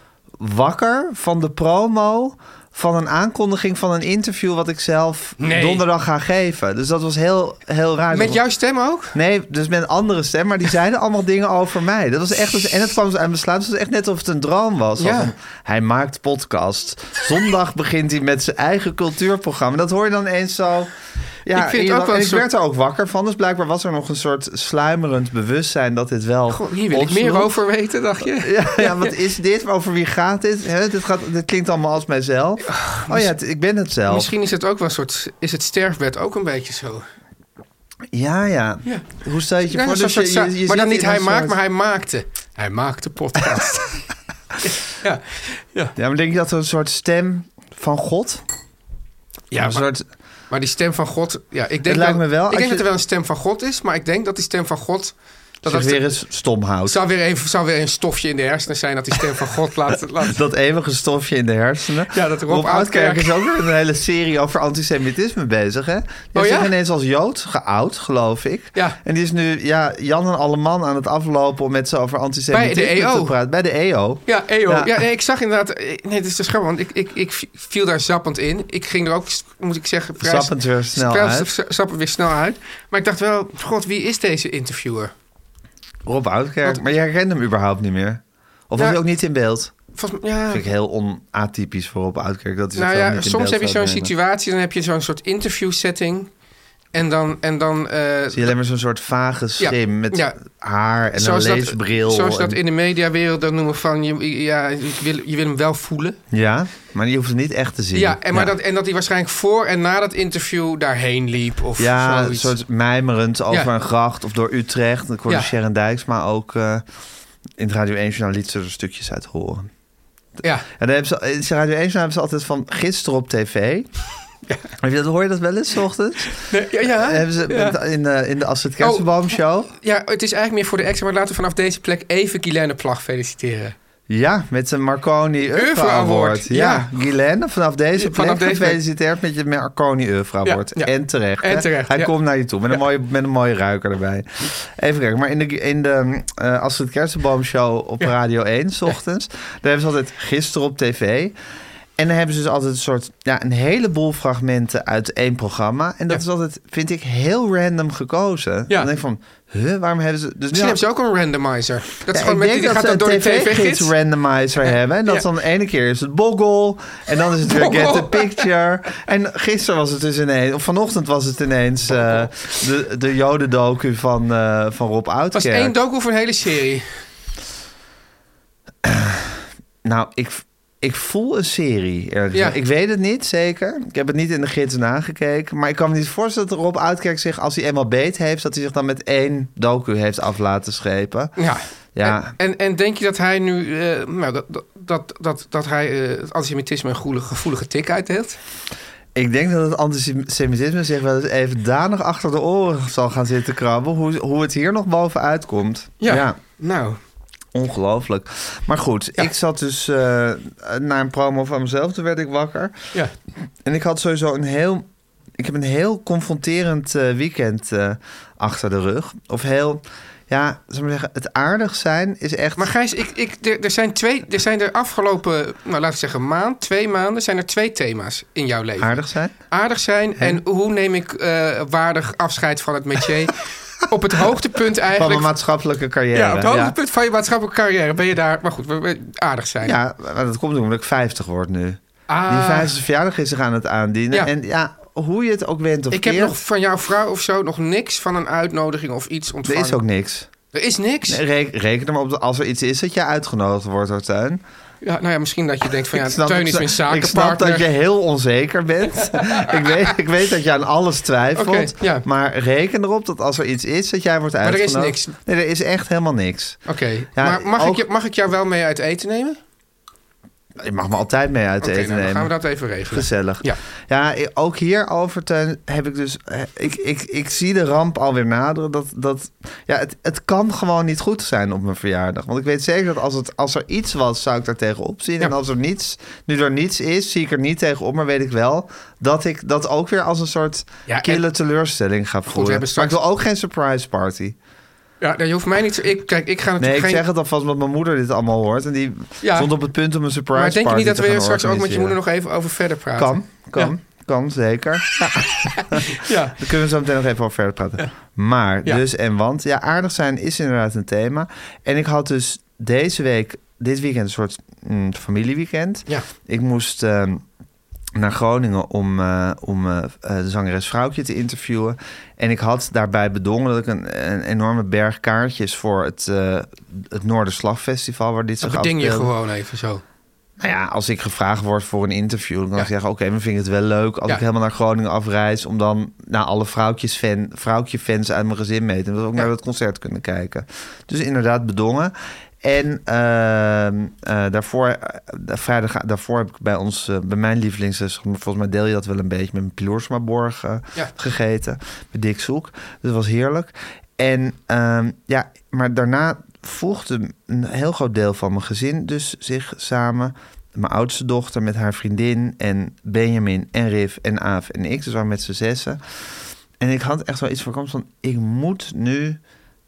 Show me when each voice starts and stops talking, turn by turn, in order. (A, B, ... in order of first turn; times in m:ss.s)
0:00.4-0:08.4 A
0:05.4-0:05.8 B
0:08.1-0:09.1 B
0:09.1-0:20.9 A
0:15.0-0:15.3 B
0:21.4-0:27.5 A
0:21.5-0:22.5 B
0:26.5-0:29.1 B
0:28.2-0:34.3 A
0:32.7-0:33.3 B
0:34.1-0:37.0 B
0:38.1-0:41.6 A
0:39.7-0:44.0 B
0:44.6-0:45.9 B
0:46.0-0:48.4 A
0:49.5-0:49.9 B
0:49.6-0:50.0 A
0:50.5-0:56.0 B
0:51.8-0:52.8 A
0:55.6-0:57.0 A
0:56.8-1:00.4 B
1:00.2-1:15.0 A
1:02.1-1:03.4 B
1:06.3-1:06.7 B
1:12.5-1:13.3 B
1:14.3-1:25.1 B
1:20.2-1:21.5 A
1:26.0-1:29.7 A
1:30.0-1:30.6 B
1:30.5-1:34.1 A
1:32.8-1:36.3 B
1:36.9-1:38.5 B
1:38.3-1:42.6 A
1:39.6-1:40.3 B
1:41.1-1:46.2 B
1:46.3-1:48.5 A
1:47.9-1:52.5 B
1:51.8-1:56.8 A
1:57.6-1:59.7 A
2:00.4-2:00.7 B
2:00.7-2:03.9 A
2:04.8-2:09.7 A
2:06.5-2:07.8 B
2:08.8-2:09.1 B
2:09.8-2:13.7 B
2:14.1-2:31.3 A
2:15.6-2:16.9 B
2:18.0-2:18.8 B
2:20.4-2:22.1 B
2:32.0-2:40.8 A
2:40.5-2:43.9 B
2:42.1-2:55.7 A
2:44.7-2:45.2 B
2:47.4-2:48.5 B
2:51.9-2:52.3 B
2:55.3-2:56.9 B
2:58.8-3:11.3 A
3:11.4-3:18.4 B
3:11.9-3:12.3 A
3:19.1-3:26.4 A
3:26.0-3:27.0 B
3:27.5-3:32.7 A
3:33.6-3:34.9 A
3:35.4-3:42.7 A
3:42.6-3:55.3 B
3:48.8-3:49.3 A
3:54.9-3:56.7 A
3:56.1-3:59.8 B
3:59.6-4:06.4 A
4:02.1-4:02.8 B
4:05.9-4:09.8 B
4:09.4-4:10.3 A
4:10.5-4:11.2 B
4:11.1-4:14.4 A
4:14.8-4:17.7 B
4:15.9-4:26.6 A
4:19.0-4:19.9 B
4:21.4-4:22.0 B
4:24.4-4:25.1 B
4:26.7-4:29.4 B
4:27.2-4:27.8 A
4:30.6-4:32.3 A
4:31.6-4:33.6 B
4:32.9-4:54.4 A
4:50.9-4:51.2 B
4:52.3-4:53.0 B
4:55.0-4:57.0 B
4:56.6-5:02.0 A
4:59.2-4:59.5 B
5:00.3-5:03.7 B
5:03.0-5:17.2 A
5:05.5-5:06.4 B
5:17.9-5:29.1 A
5:28.4-5:29.8 B
5:30.4-6:05.8 A
6:06.6-6:09.2 A